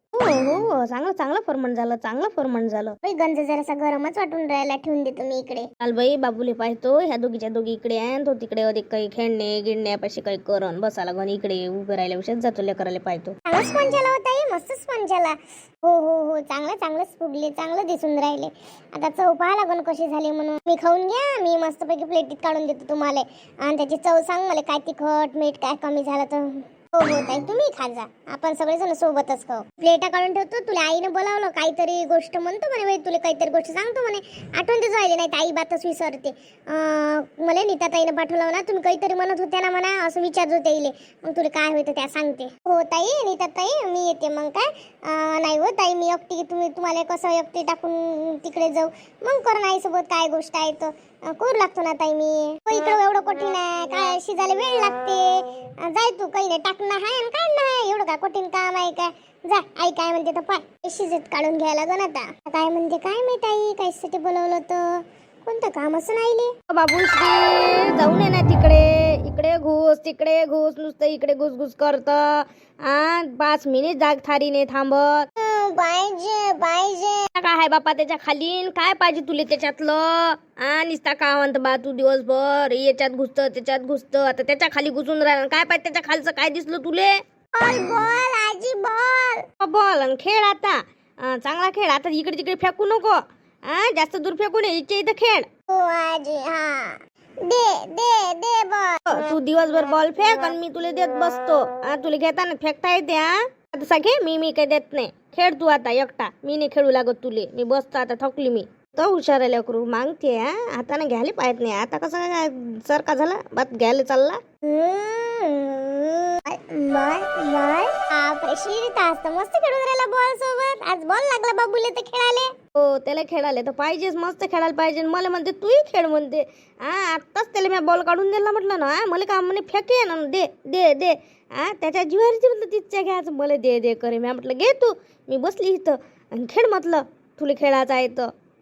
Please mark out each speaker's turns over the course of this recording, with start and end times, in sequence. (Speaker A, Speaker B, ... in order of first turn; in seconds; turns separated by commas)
Speaker A: 0.1-3.0, Speaker B: 3.0-5.7, Speaker A: 5.8-13.4, Speaker B: 13.4-66.5, Speaker A: 66.7-75.3, Speaker B: 75.4-77.3, Speaker A: 77.3-87.2, Speaker B: 87.5-89.4, Speaker A: 89.6-95.5, Speaker B: 95.7-99.0, Speaker A: 99.1-114.4, Speaker B: 114.6-122.5, Speaker A: 122.8-138.3